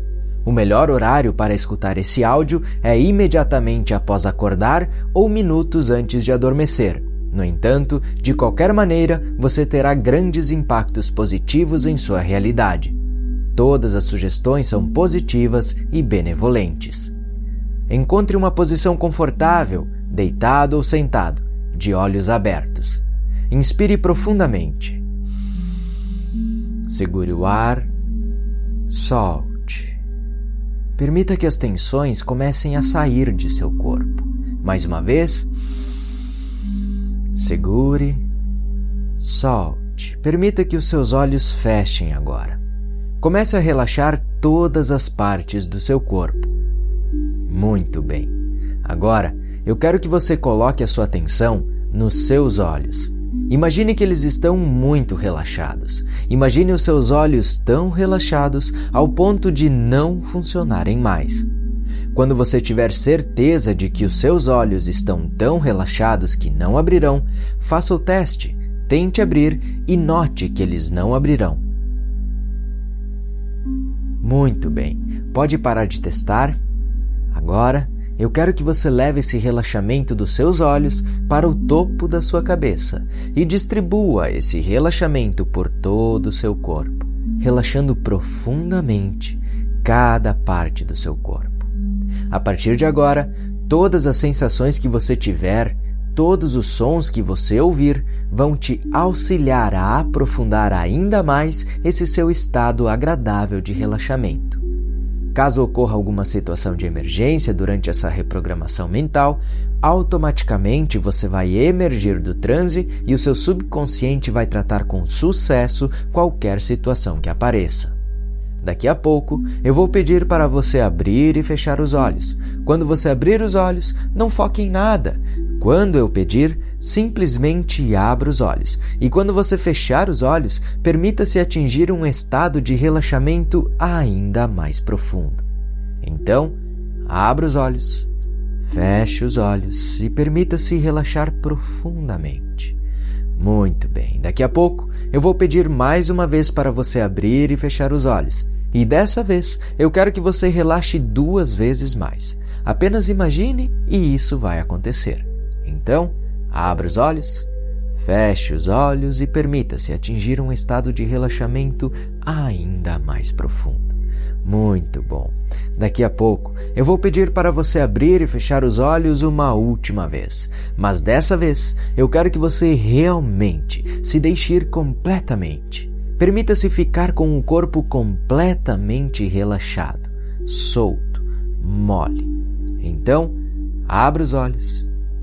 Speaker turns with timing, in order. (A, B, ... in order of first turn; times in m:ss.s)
0:00.4-0:13.0 A
0:13.6-0:17.1 A
0:17.9-0:25.0 A
0:26.9-0:27.9 A
0:28.9-0:30.0 A
0:31.0-0:35.5 A
0:37.4-0:38.3 A
0:39.2-0:42.6 A
0:43.2-0:46.5 A
0:47.5-1:01.5 A
1:02.1-1:11.6 A
1:14.2-1:16.6 A
1:17.3-1:31.7 A
1:32.3-1:44.6 A
1:45.3-1:58.0 A
1:58.6-2:15.4 A
2:16.0-2:18.1 A
2:18.6-2:22.8 A
2:23.4-3:04.9 A